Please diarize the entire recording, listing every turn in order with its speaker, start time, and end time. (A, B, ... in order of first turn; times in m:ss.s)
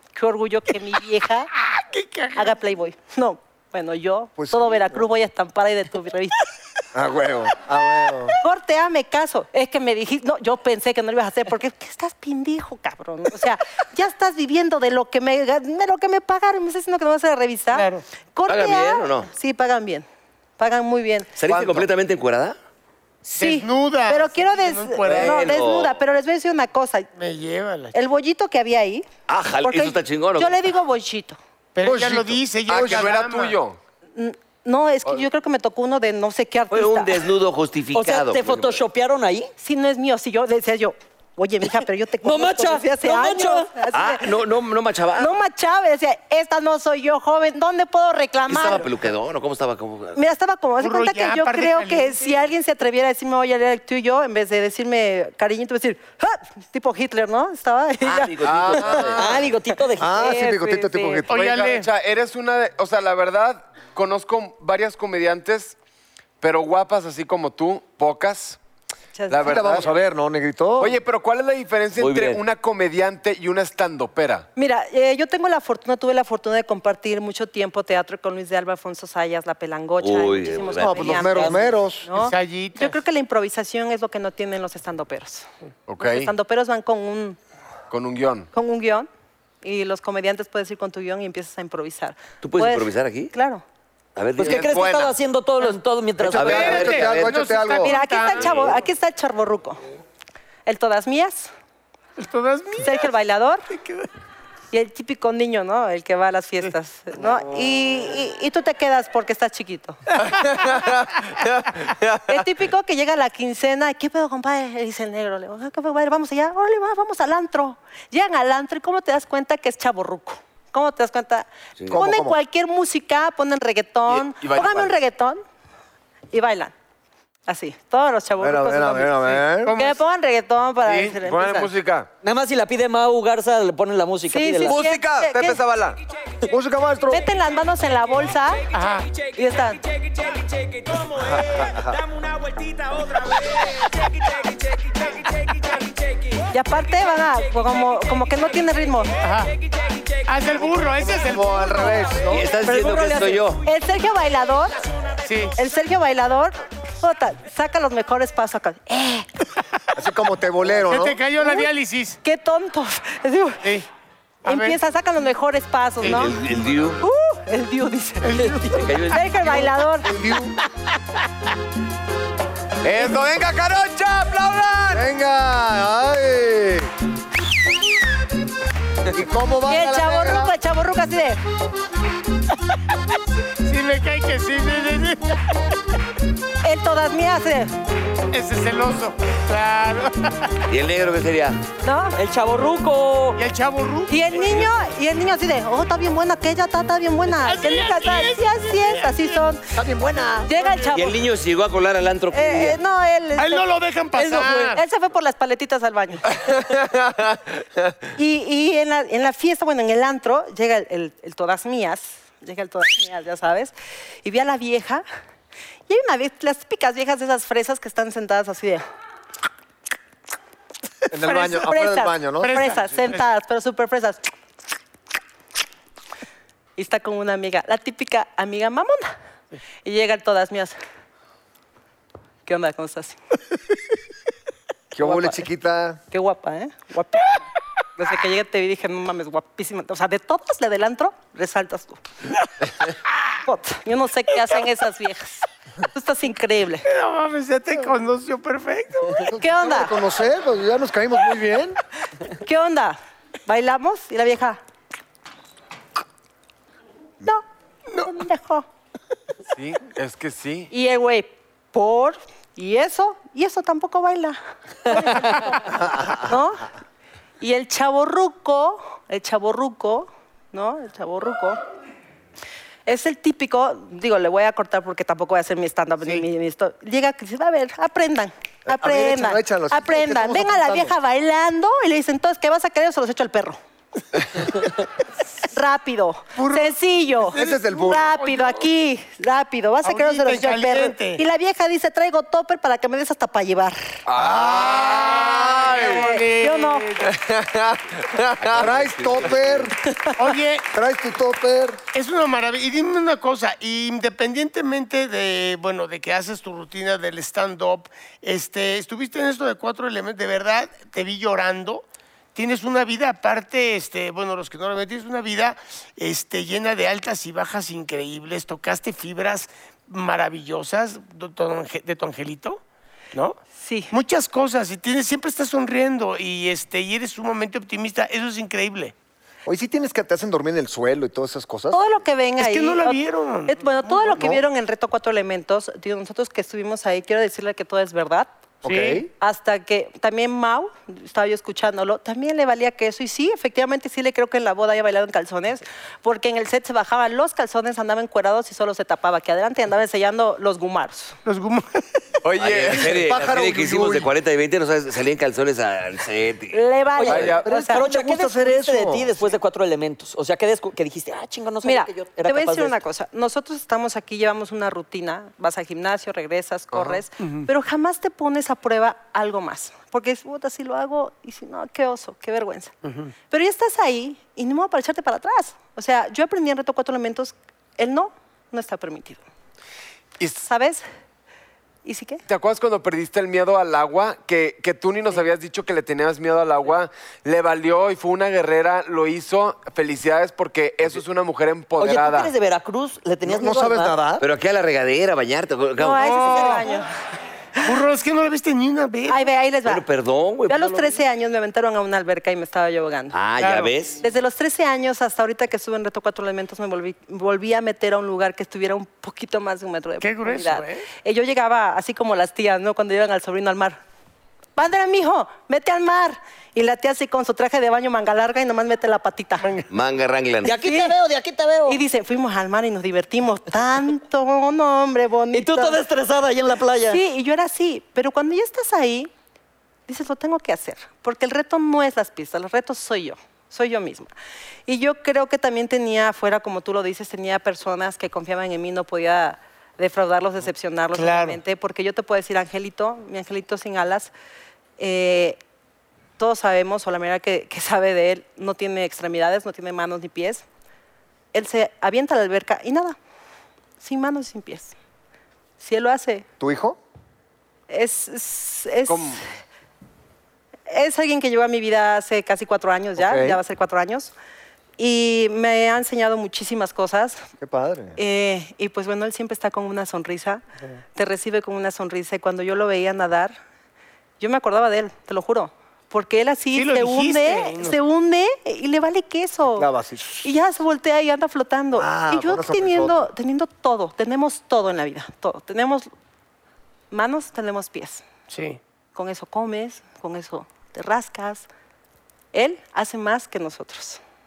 0:00.1-0:01.5 A
0:01.7-0:02.6 B
0:02.4-0:06.5 A
0:04.4-0:05.0 C
0:06.9-0:08.4 C
0:08.4-0:20.0 A
0:17.7-0:18.0 B
0:18.5-0:19.3 D
0:20.6-0:21.3 A
0:21.4-0:22.6 D
0:23.2-0:27.1 A
0:23.4-0:25.4 B
0:25.0-0:26.0 D
0:27.2-0:27.9 B
0:27.9-0:29.0 A
0:29.3-0:30.6 D
0:29.6-0:31.4 A
0:31.7-0:33.6 B
0:31.8-0:33.1 C
0:32.7-0:33.8 E
0:34.2-0:37.2 A
0:36.7-0:38.8 D
0:37.9-0:39.5 F
0:39.6-0:44.3 A
0:42.2-0:43.7 F
0:43.9-0:45.3 D
0:45.1-0:48.9 A
0:48.5-0:50.2 D
0:50.1-0:59.1 A
0:50.8-0:52.4 B
0:58.0-0:59.4 D
0:58.4-0:59.3 E
0:59.2-1:00.4 F
1:00.0-1:01.3 C
1:00.1-1:01.3 A
1:01.3-1:01.9 B
1:01.3-1:05.7 E
1:06.4-1:08.6 E
1:09.1-1:09.7 A
1:09.3-1:09.9 E
1:09.4-1:11.0 C
1:10.8-1:14.5 E
1:12.0-1:12.4 D
1:14.6-1:25.5 A
1:20.0-1:21.5 D
1:20.8-1:22.1 C
1:22.1-1:23.0 B
1:25.9-1:26.3 E
1:26.0-1:27.4 A
1:27.9-1:28.5 E
1:28.5-1:29.1 A
1:29.6-1:33.6 A
1:32.4-1:33.3 D
1:34.2-1:34.9 D
1:34.4-1:36.8 F
1:34.4-1:35.1 E
1:36.2-1:37.9 C
1:36.3-1:37.4 D
1:36.4-1:38.6 B
1:37.8-1:39.8 A
1:38.4-1:38.6 D
1:40.6-1:41.5 A
1:42.2-1:43.1 B
1:42.8-1:43.6 A
1:43.8-1:44.1 B
1:44.7-1:50.0 A
1:50.3-1:52.4 E
1:52.3-2:05.4 A
2:01.9-2:02.4 C
2:04.1-2:04.9 E
2:06.3-2:06.7 A
2:07.5-2:11.7 A
2:08.4-2:09.7 C
2:09.6-2:10.0 B
2:10.8-2:12.1 E
2:12.2-2:14.8 F
2:14.3-2:15.6 A
2:14.6-2:16.0 E
2:16.4-2:17.3 C
2:17.1-2:18.7 A
2:18.7-2:19.1 B
2:19.3-2:19.8 A
2:21.2-2:22.0 C
2:23.0-2:23.4 B
2:26.5-2:29.2 A
2:29.2-2:29.6 B
2:30.2-2:32.1 B
2:30.8-2:32.4 C
2:32.3-2:33.6 D
2:32.6-2:34.8 A
2:35.2-2:35.6 B
2:35.6-2:39.3 A
2:39.9-2:41.2 C
2:40.8-2:42.2 B
2:41.4-2:41.7 A
2:42.2-2:43.7 A
2:44.4-2:44.8 B
2:44.4-2:46.3 A
2:46.0-2:47.0 D
2:47.0-2:50.1 A
2:48.2-2:49.0 B
2:48.8-2:49.6 D
2:50.0-2:50.5 C
2:52.8-2:55.0 E
2:54.9-2:56.9 C
2:59.1-3:00.5 C
2:59.6-3:01.4 A
3:03.6-3:05.4 B
3:06.6-3:07.7 A
3:08.3-3:10.6 B
3:10.7-3:11.6 D
3:11.8-3:12.2 A
3:12.2-3:13.4 F
3:13.4-3:14.7 B
3:14.1-3:19.6 A
3:17.4-3:19.4 B
3:19.7-3:20.6 C
3:20.4-3:21.2 A
3:20.9-3:22.8 D
3:22.3-3:23.7 A
3:23.4-3:24.8 B
3:24.2-3:24.7 F
3:24.7-3:26.4 A
3:26.5-3:27.3 E
3:28.2-3:35.0 A
3:35.9-3:38.8 A
3:41.1-3:42.8 C
3:41.2-3:44.2 A
3:42.4-3:43.2 B
3:46.8-3:49.1 A
3:49.8-3:50.8 A
3:52.4-3:53.2 A
3:54.9-3:56.0 C
3:55.0-3:55.4 A
3:56.1-3:57.4 A
3:58.0-4:02.0 A
4:03.4-4:06.8 A
4:06.8-4:09.3 B
4:09.2-4:11.8 C
4:09.4-4:10.0 A
4:12.3-4:14.6 A
4:18.0-4:18.6 A
4:19.5-4:20.7 E
4:20.7-4:26.7 A
4:27.4-4:31.6 A
4:32.8-4:43.6 A
4:38.7-4:40.9 C
4:45.5-4:53.8 A
4:46.4-4:46.8 B
4:47.3-4:48.1 C
4:47.3-4:48.4 B
4:49.8-4:51.2 B
4:54.1-4:56.0 E
4:54.2-4:55.4 C
4:54.5-4:57.1 B
4:55.8-4:56.9 A
4:57.1-4:59.3 E
4:58.4-4:59.7 D
4:58.5-4:59.8 C
5:00.2-5:00.7 B
5:00.7-5:01.8 C
5:01.9-5:22.6 B
5:23.6-5:23.9 A
5:23.9-5:28.9 B
5:29.4-5:31.8 C
5:31.7-5:38.3 A
5:32.4-5:34.1 B
5:34.2-5:34.4 C
5:38.6-5:39.1 C
5:38.6-5:39.0 B
5:39.2-5:51.2 A
5:51.2-5:51.8 B
5:52.2-5:53.1 E
5:52.4-5:56.6 D
5:52.8-5:54.1 C
5:56.5-5:57.9 A
5:57.0-6:02.8 F
5:57.1-5:57.5 E
5:57.4-5:59.3 C
6:01.6-6:12.7 A
6:06.7-6:07.0 E
6:07.2-6:07.5 B
6:12.8-6:13.1 B
6:13.3-6:19.2 A
6:20.2-6:20.4 E
6:20.4-6:20.8 A
6:21.8-6:22.2 A
6:22.3-6:32.3 E
6:31.8-6:34.0 F
6:33.2-6:34.3 C
6:34.2-6:36.6 D
6:35.8-6:36.9 A
6:36.0-6:36.8 B
6:37.6-6:39.3 B
6:39.1-6:39.8 A
6:39.6-6:41.0 D
6:40.5-6:43.2 A
6:43.1-6:44.0 D
6:43.4-6:43.7 B
6:44.0-6:53.8 A
6:50.0-6:50.9 B
6:54.6-6:59.6 A
6:59.7-7:00.5 D
7:00.4-7:01.8 F
7:00.4-7:01.0 A
7:01.6-7:05.8 A
7:05.3-7:07.0 F
7:06.9-7:09.1 A
7:09.9-7:14.1 A
7:14.7-7:24.1 A
7:20.9-7:21.4 B
7:24.8-7:25.4 A
7:26.2-7:30.4 A
7:31.3-7:33.0 A
7:33.8-7:34.7 A
7:35.6-7:36.2 A
7:36.4-7:36.8 C
7:37.7-7:39.2 A
7:38.9-7:39.2 E
7:40.7-7:44.1 A
7:43.0-7:43.4 C
7:44.8-7:47.2 A
7:47.4-7:48.0 C
7:48.0-7:50.4 A
7:51.0-7:53.4 A
7:54.2-7:59.7 A
7:56.5-7:57.8 B
7:59.6-8:00.3 C
8:00.2-8:05.9 A
8:01.8-8:03.1 C
8:06.9-8:08.0 A
8:08.3-8:08.6 B
8:08.9-8:11.4 A
8:12.3-8:14.0 A